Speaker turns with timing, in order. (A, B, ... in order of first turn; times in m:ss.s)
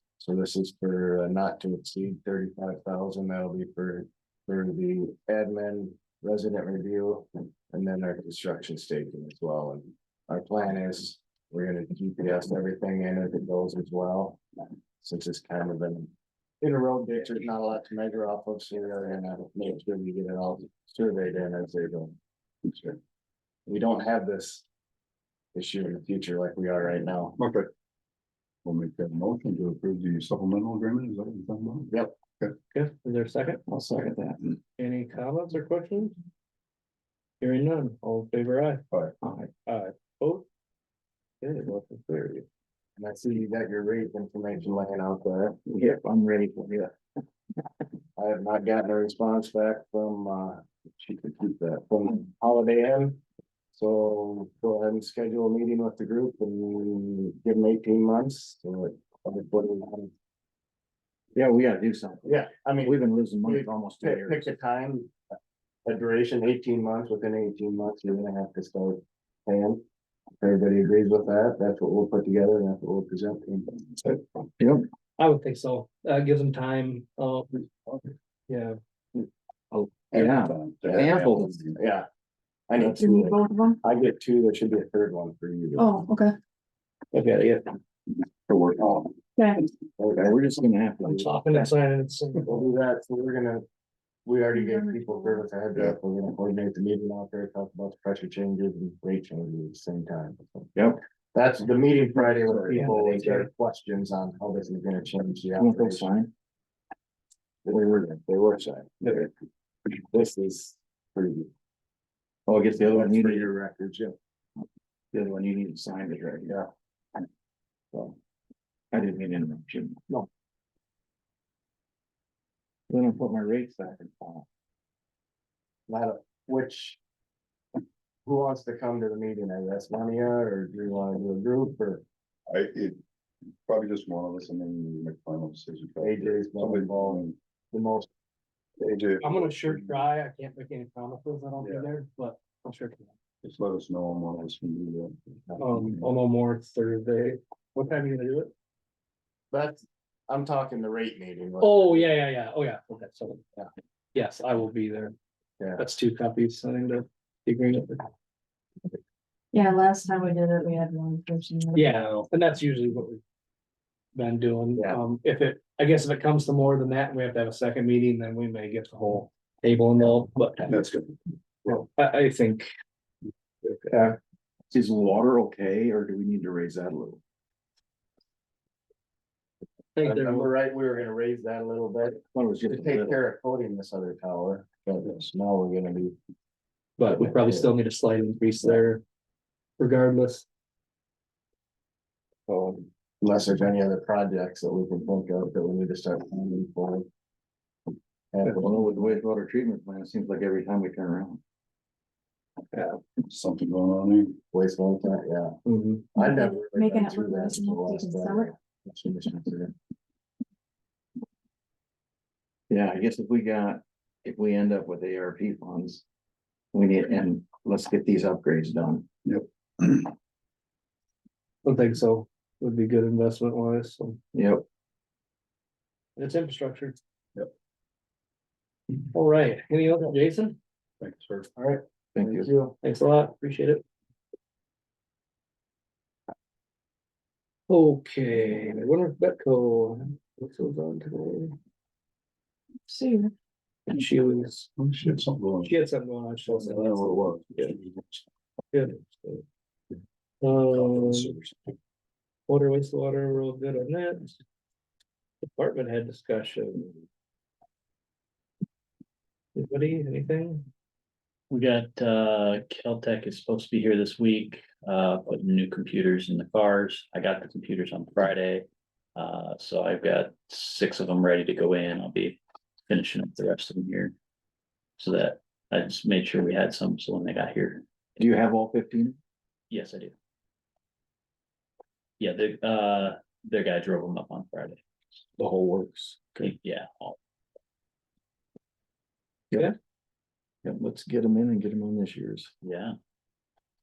0:00.2-0:14.4 A
0:15.0-0:22.2 A
0:23.6-0:24.6 A
0:25.5-0:27.4 A
0:27.4-0:27.7 B
0:28.6-0:32.5 B
0:31.9-0:32.2 A
0:32.7-0:33.6 C
0:33.7-0:34.6 D
0:34.8-0:36.2 C
0:37.4-0:38.8 C
0:39.2-0:39.5 D
0:39.6-0:40.4 C
0:41.4-0:42.4 C
0:43.0-0:45.6 A
0:45.6-0:46.9 D
0:48.2-0:53.2 A
0:53.7-1:00.1 A
1:01.3-1:04.5 D
1:02.2-1:05.1 A
1:05.8-1:09.8 A
1:10.4-1:13.8 A
1:14.0-1:14.4 B
1:14.6-1:14.9 D
1:15.2-1:17.7 C
1:18.5-1:18.8 C
1:19.7-1:21.6 D
1:20.1-1:21.8 B
1:20.9-1:21.1 A
1:21.7-1:22.1 A
1:22.7-1:26.0 A
1:23.0-1:23.8 E
1:25.8-1:26.3 E
1:27.1-1:27.8 C
1:28.5-1:29.0 D
1:30.0-1:30.5 A
1:30.2-1:31.7 D
1:31.0-1:32.7 C
1:32.4-1:33.6 A
1:34.2-1:40.7 A
1:41.3-1:46.1 A
1:42.3-1:43.5 C
1:45.6-1:46.3 D
1:47.6-1:49.3 A
1:47.7-1:48.1 D
1:50.0-1:51.5 A
1:52.5-1:53.5 D
1:52.8-1:54.2 A
1:55.1-1:56.6 D
1:58.9-2:00.0 D
2:02.9-2:04.4 D
2:05.9-2:07.0 A
2:08.2-2:12.0 A
2:12.5-2:13.0 B
2:13.6-2:17.4 B
2:16.0-2:18.1 A
2:18.8-2:20.0 B
2:19.2-2:23.1 C
2:21.6-2:21.9 B
2:23.4-2:25.2 B
2:25.5-2:28.5 C
2:29.5-2:32.1 A
2:31.6-2:33.4 C
2:34.1-2:35.1 C
2:35.8-2:38.1 C
2:39.5-2:41.9 E
2:41.7-2:43.2 C
2:44.1-2:50.8 C
2:50.7-2:51.7 B
2:51.6-2:52.7 C
2:53.9-2:54.2 A
2:54.7-2:57.2 D
3:00.0-3:00.5 C
3:00.0-3:06.2 A
3:02.3-3:03.2 D
3:07.0-3:09.0 C
3:07.2-3:07.7 A
3:09.8-3:10.4 C
3:13.2-3:17.1 A
3:18.3-3:19.2 A
3:18.4-3:21.4 D
3:23.2-3:24.4 B
3:24.5-3:25.6 A
3:25.6-3:26.1 C
3:26.1-3:29.7 A
3:26.7-3:28.5 E
3:32.7-3:36.0 D
3:36.7-3:39.1 D
3:39.2-3:40.1 B
3:41.6-3:44.2 C
3:44.3-3:44.6 D
3:46.2-3:47.0 C
3:49.0-3:50.6 C
3:51.0-3:51.5 B
3:51.6-3:52.7 A
3:52.1-3:52.5 D
3:52.8-3:53.8 C
3:57.7-4:01.6 C
4:02.9-4:03.3 E
4:03.9-4:04.7 C
4:04.8-4:05.8 B
4:05.6-4:07.7 C
4:06.4-4:08.2 B
4:08.7-4:09.4 C
4:10.4-4:11.3 C
4:10.8-4:11.7 B
4:12.5-4:14.4 C
4:15.4-4:17.0 C
4:19.5-4:20.7 C
4:21.5-4:34.1 F
4:35.0-4:37.8 F
4:38.2-4:39.2 D
4:39.7-4:40.1 F
4:42.2-4:44.8 F
4:45.4-4:46.5 D
4:46.4-4:47.2 F
4:50.6-4:52.5 D
4:52.6-4:52.9 F